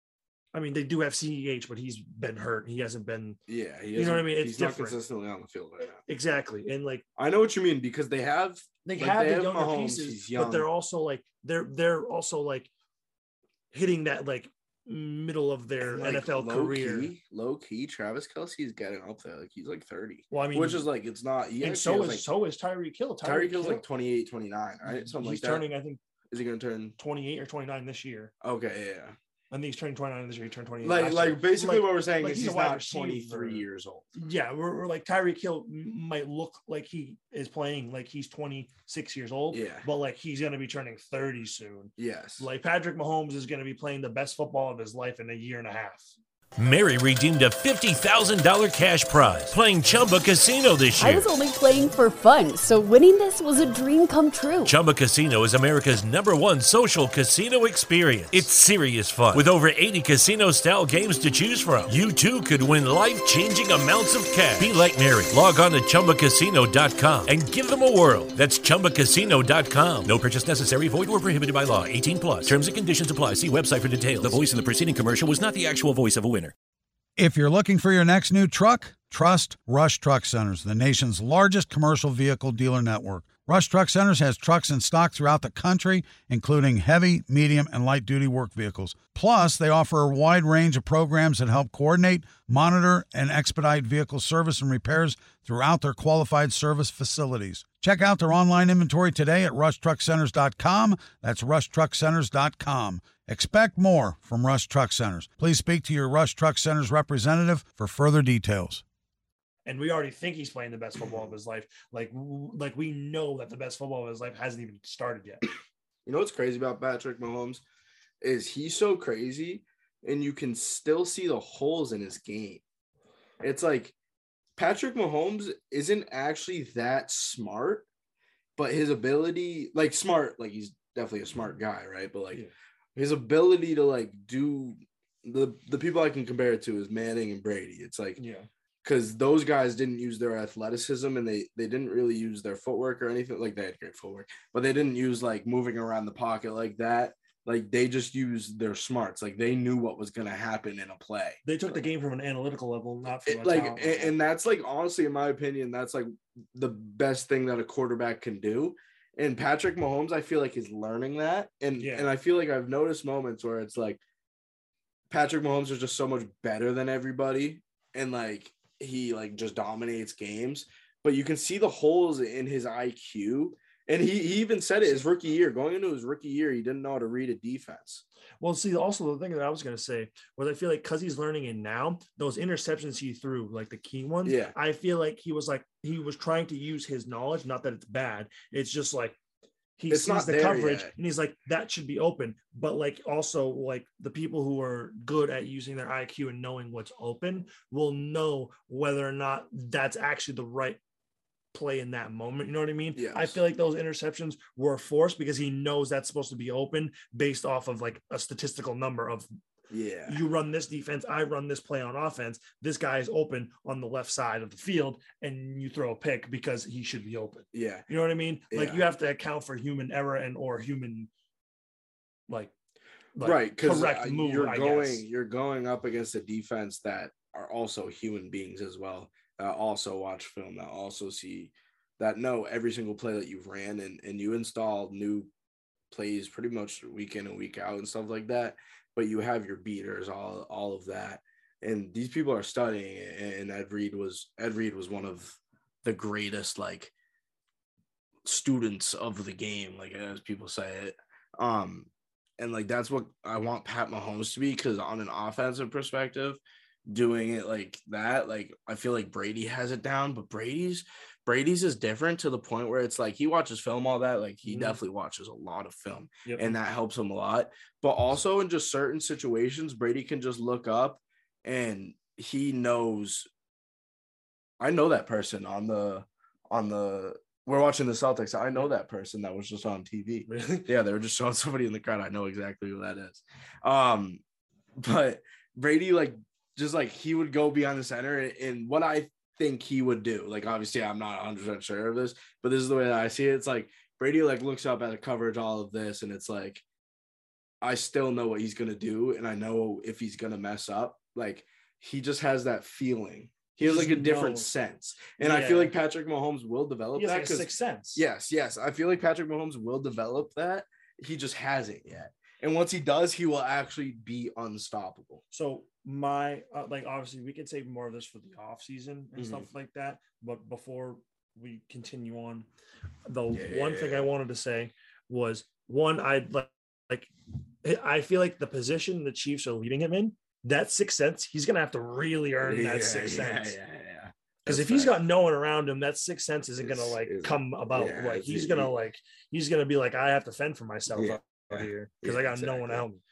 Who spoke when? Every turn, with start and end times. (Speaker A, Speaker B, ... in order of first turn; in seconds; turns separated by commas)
Speaker A: 0.5-3.4, Speaker B: 3.5-6.0, Speaker A: 4.0-5.0, Speaker A: 6.0-7.0, Speaker B: 7.2-10.7, Speaker A: 8.8-12.7, Speaker A: 13.7-17.1, Speaker B: 15.8-22.2, Speaker A: 20.3-20.9, Speaker A: 21.6-23.8, Speaker B: 23.2-25.6, Speaker A: 24.8-26.0, Speaker B: 26.3-26.9, Speaker A: 27.0-28.3, Speaker B: 28.4-29.1, Speaker A: 29.5-46.1, Speaker B: 30.8-34.1, Speaker B: 39.5-39.9, Speaker B: 42.0-42.5, Speaker C: 46.6-51.3, Speaker D: 51.0-54.8, Speaker C: 54.6-76.5, Speaker E: 77.2-108.8, Speaker A: 109.7-115.4, Speaker B: 116.0-117.6, Speaker B: 118.2-122.6, Speaker B: 123.4-123.9, Speaker B: 124.6-127.8, Speaker B: 128.6-138.2, Speaker A: 138.2-138.5, Speaker B: 138.8-151.4, Speaker A: 151.4-154.1, Speaker B: 153.2-164.0, Speaker A: 161.8-162.1, Speaker B: 165.1-178.0, Speaker A: 178.4-189.2, Speaker B: 184.2-184.5, Speaker A: 189.8-200.8, Speaker B: 189.9-190.9, Speaker A: 201.5-209.3, Speaker B: 202.9-203.4, Speaker B: 209.7-210.2, Speaker A: 210.1-221.1, Speaker B: 217.5-217.9, Speaker B: 218.5-218.8, Speaker A: 223.2-225.0, Speaker B: 223.2-235.3, Speaker B: 235.9-246.9, Speaker B: 248.2-273.3, Speaker A: 264.4-264.8, Speaker A: 266.2-266.6, Speaker B: 274.6-284.2, Speaker A: 280.3-280.7, Speaker B: 284.8-296.6, Speaker B: 297.6-315.2, Speaker A: 303.6-304.5, Speaker A: 305.2-305.7, Speaker A: 306.9-308.0, Speaker A: 315.3-322.5, Speaker B: 319.1-319.5, Speaker A: 323.1-327.1, Speaker B: 323.3-324.1, Speaker A: 327.6-333.6, Speaker B: 332.4-335.0, Speaker A: 334.4-343.0, Speaker B: 336.6-338.7, Speaker B: 340.9-342.9